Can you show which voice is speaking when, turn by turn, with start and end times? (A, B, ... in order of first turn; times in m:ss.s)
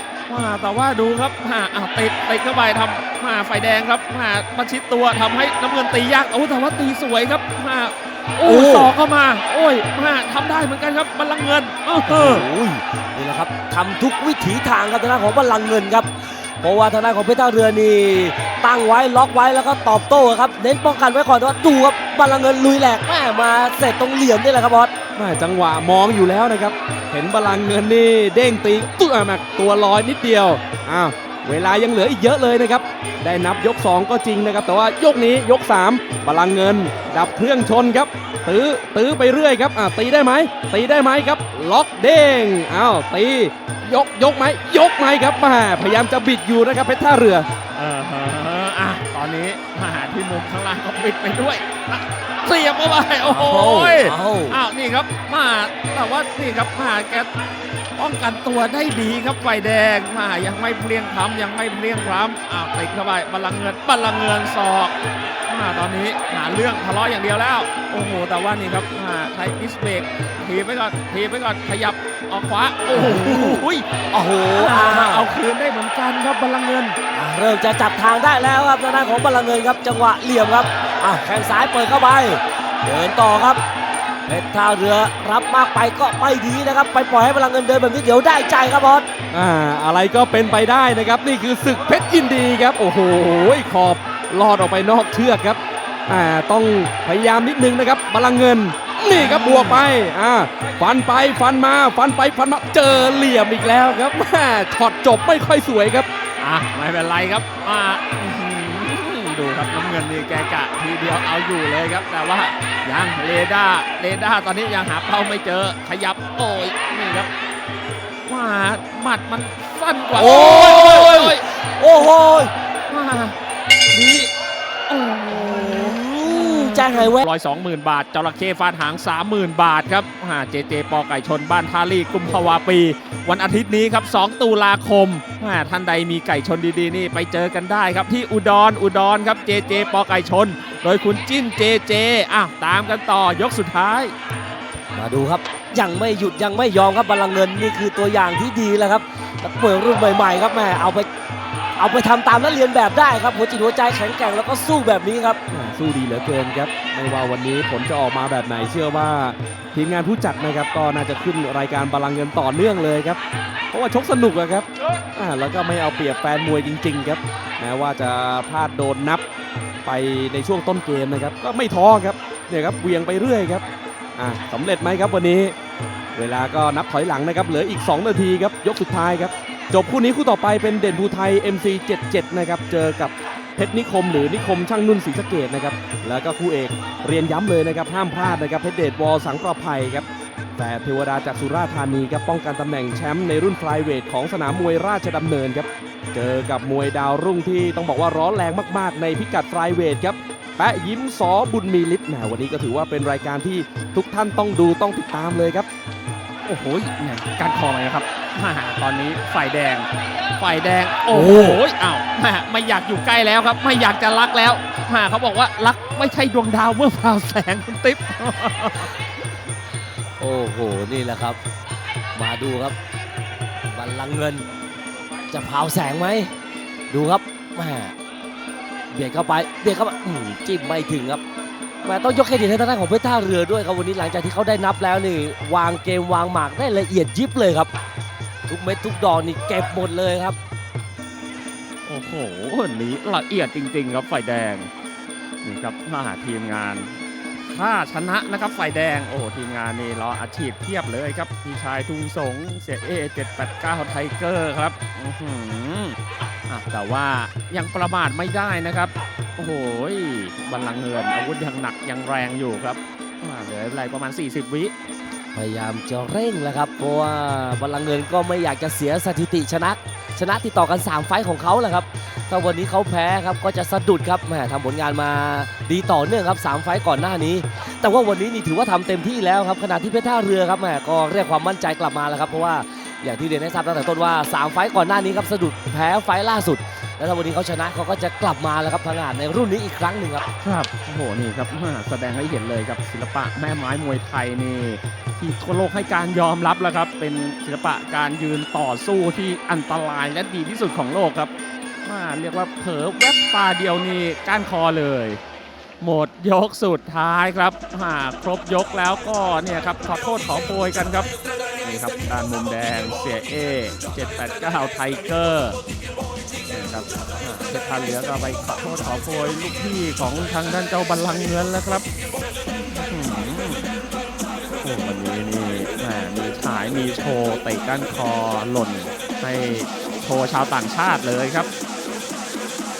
0:00.3-0:12.5 A
0:08.4-0:08.9 B
0:12.1-0:24.9 B
0:25.2-0:47.5 C
0:47.8-0:57.3 A
0:53.2-0:54.6 B
0:58.0-1:04.9 A
1:05.5-1:13.9 A
1:12.9-1:15.3 B
1:14.5-1:17.0 A
1:17.1-1:23.6 B
1:24.3-1:29.1 B
1:29.3-1:46.1 C
1:39.1-1:39.9 A
1:46.4-1:57.3 A
1:58.3-2:01.4 A
2:00.1-2:02.5 B
2:02.9-2:03.4 A
2:03.9-2:04.3 A
2:04.9-2:24.1 A
2:05.3-2:07.2 B
2:25.0-2:31.1 B
2:31.8-2:35.4 B
2:35.5-2:43.2 C
2:43.7-2:49.2 C
2:49.8-2:53.6 C
2:54.2-2:55.6 C
2:56.2-3:10.1 C
3:10.6-3:25.7 C
3:26.5-3:38.9 A
3:31.1-3:31.6 B
3:40.2-3:41.4 B
3:42.2-3:42.8 B
3:43.7-3:44.5 B
3:45.3-3:46.4 B
3:46.9-3:48.0 B
3:48.9-3:51.2 B
3:51.8-3:57.7 B
3:58.5-4:00.4 B
4:01.9-4:04.7 A
4:05.4-4:16.0 A
4:16.5-4:24.7 A
4:25.4-4:50.3 B
4:50.4-5:01.3 A
5:01.8-5:05.2 A
5:05.8-5:11.1 A
5:11.6-5:15.6 A
5:16.5-5:21.8 A
5:22.7-5:23.7 A
5:24.6-5:31.5 A